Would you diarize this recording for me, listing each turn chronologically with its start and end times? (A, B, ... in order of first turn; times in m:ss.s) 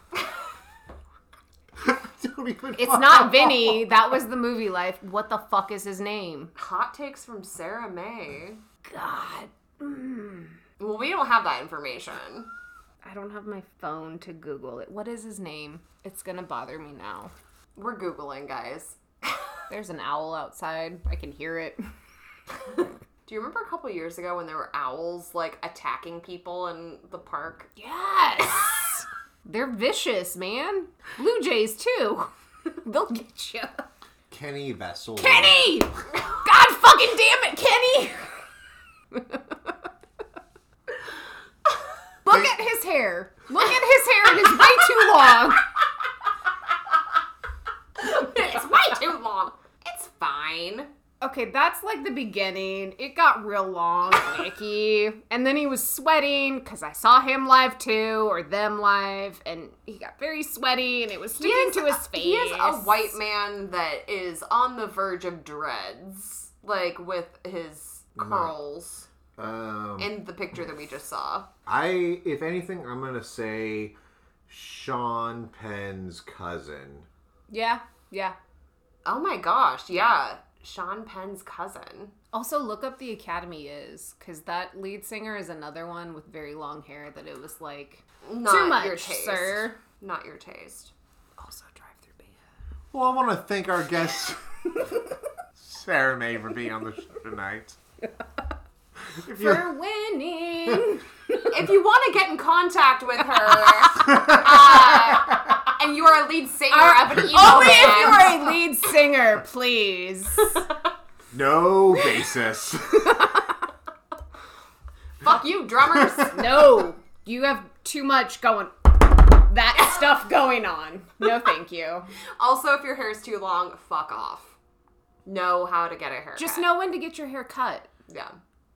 0:01.8-0:04.0 A
0:02.8-0:06.5 B
0:06.6-0:08.6 C
0:08.8-0:10.6 B
0:10.8-0:12.5 C
0:13.0-0:17.3 B
0:17.8-0:19.0 C
0:19.7-0:21.9 B
0:23.3-0:27.7 C
0:27.8-0:33.9 B
0:34.3-0:35.9 A
0:35.2-0:38.3 B
0:39.1-0:39.4 B
0:42.2-0:45.6 B
0:48.0-0:50.9 C
0:51.2-1:03.1 B
1:01.4-1:09.1 C
1:08.2-1:08.5 A
1:09.4-1:10.2 A
1:10.0-1:11.5 C
1:11.7-1:14.0 A
1:14.5-1:17.1 A
1:17.5-1:18.4 B
1:19.0-1:22.1 C
1:22.3-1:29.8 B
1:28.2-1:30.9 C
1:31.4-1:32.4 B
1:32.9-1:34.9 A
1:35.6-1:37.8 A
1:39.2-1:39.8 A
1:39.3-1:41.5 B
1:41.5-1:48.6 C
1:44.1-1:44.6 A
1:46.7-1:50.6 B
1:50.4-1:50.9 C
1:51.3-1:53.4 A
1:53.1-1:53.4 B
1:55.2-1:56.5 C
1:56.3-2:02.1 B
2:02.4-2:04.6 C
2:05.2-2:06.7 C
2:06.4-2:07.9 B
2:08.1-2:08.4 C